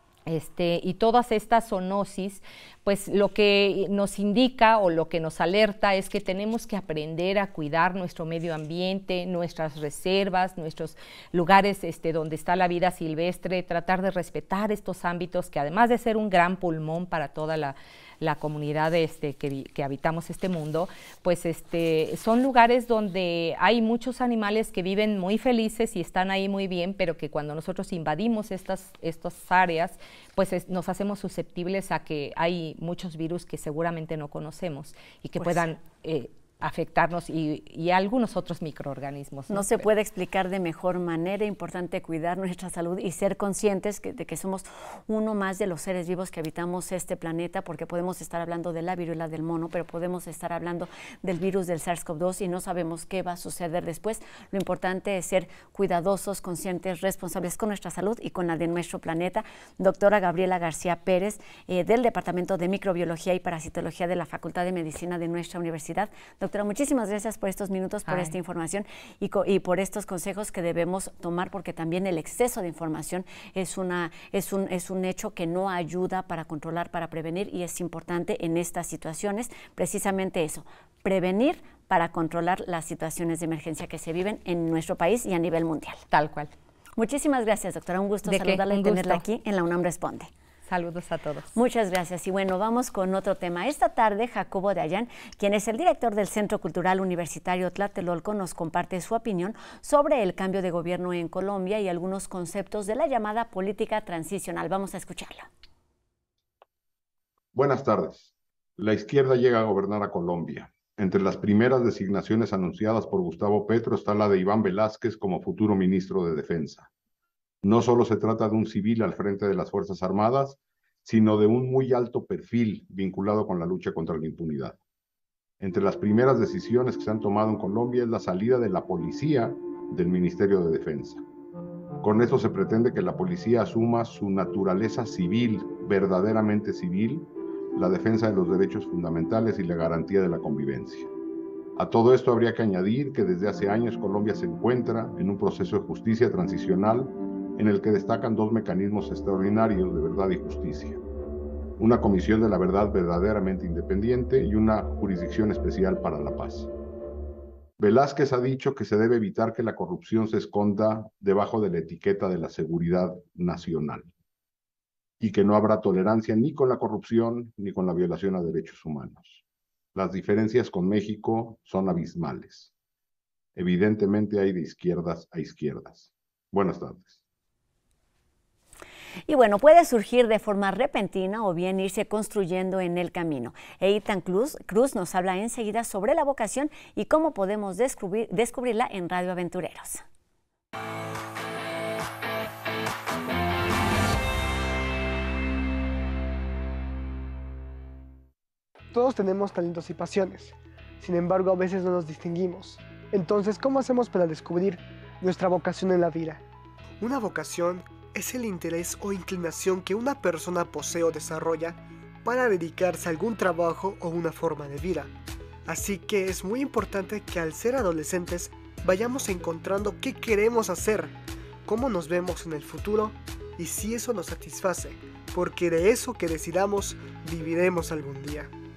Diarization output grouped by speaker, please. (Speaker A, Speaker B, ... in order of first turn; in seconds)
Speaker A: 0.3-39.9, 68.1-68.3, 86.1-86.5, 88.2-89.2, 90.6-91.5
Speaker B: 39.5-86.0, 87.0-90.3, 91.5-105.5, 179.3-190.0
Speaker C: 107.5-116.9, 117.6-124.8, 125.6-131.2, 132.0-141.1, 141.8-151.0, 151.8-156.7, 157.8-164.1, 165.2-169.4, 169.9-172.7, 173.6-177.2
Speaker D: 198.9-206.4, 207.0-215.1, 215.7-221.1, 221.7-228.5